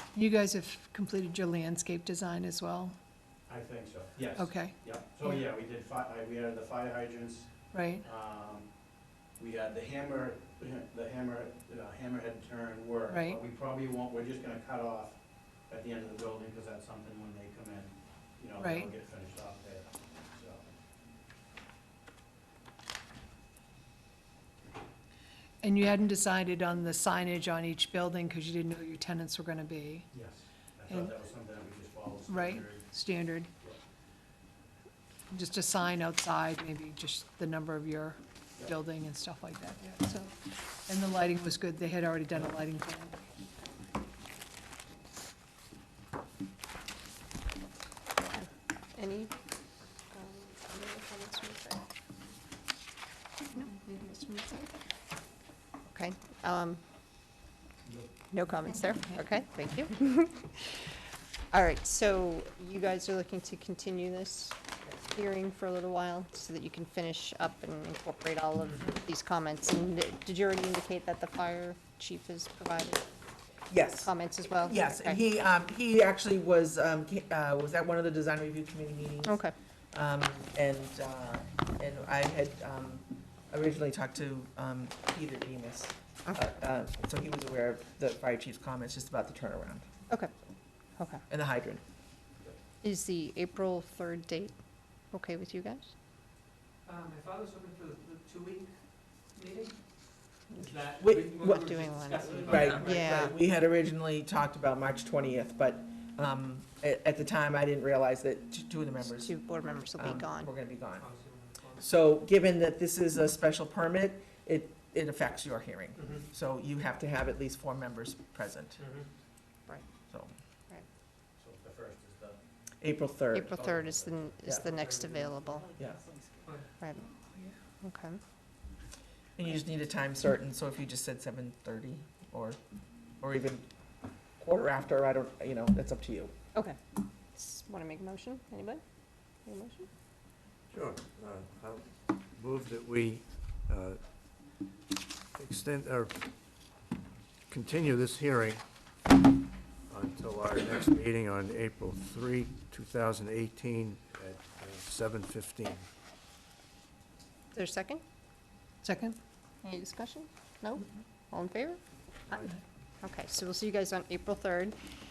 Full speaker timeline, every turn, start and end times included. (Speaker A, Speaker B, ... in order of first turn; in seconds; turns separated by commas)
Speaker A: 0.1-2.9, Speaker B: 3.5-8.7, Speaker A: 4.3-5.4, Speaker A: 7.7-8.1, Speaker B: 9.4-15.2, Speaker A: 13.1-13.4, Speaker B: 15.7-20.7, Speaker A: 18.6-18.9, Speaker A: 25.6-30.1, Speaker B: 30.1-32.9, Speaker A: 30.9-31.1, Speaker A: 32.3-33.5, Speaker A: 35.3-40.3, Speaker A: 40.9-43.2, Speaker C: 48.2-49.3, Speaker C: 50.1-51.8, Speaker C: 53.5-54.7, Speaker C: 55.9-56.8, Speaker B: 57.8-58.1, Speaker C: 58.3-60.8, Speaker C: 61.5-73.0, Speaker D: 73.7-79.4, Speaker C: 74.0-75.2, Speaker C: 79.2-79.5, Speaker D: 79.9-89.8, Speaker C: 91.0-91.2, Speaker D: 91.3-91.8, Speaker C: 92.8-94.5, Speaker C: 95.1-95.9, Speaker E: 96.8-98.7, Speaker E: 99.3-99.7, Speaker E: 100.5-103.3, Speaker D: 101.0-101.9, Speaker C: 101.4-103.3, Speaker D: 102.4-111.1, Speaker C: 109.0-110.5, Speaker E: 111.0-111.8, Speaker D: 111.8-118.8, Speaker E: 116.0-116.2, Speaker E: 118.8-119.0, Speaker B: 121.4-122.4, Speaker D: 122.8-123.5, Speaker C: 123.3-125.7, Speaker B: 123.5-124.3, Speaker E: 124.7-125.2, Speaker C: 126.8-127.0, Speaker C: 127.8-128.2, Speaker D: 129.4-132.6, Speaker D: 133.2-133.6, Speaker D: 134.4-136.3, Speaker C: 137.3-138.8, Speaker C: 139.4-139.9, Speaker F: 140.7-144.0, Speaker F: 145.3-146.3, Speaker F: 147.5-148.6, Speaker F: 149.9-155.8, Speaker C: 157.5-158.0, Speaker A: 158.8-159.2, Speaker C: 159.6-161.8, Speaker C: 163.0-164.8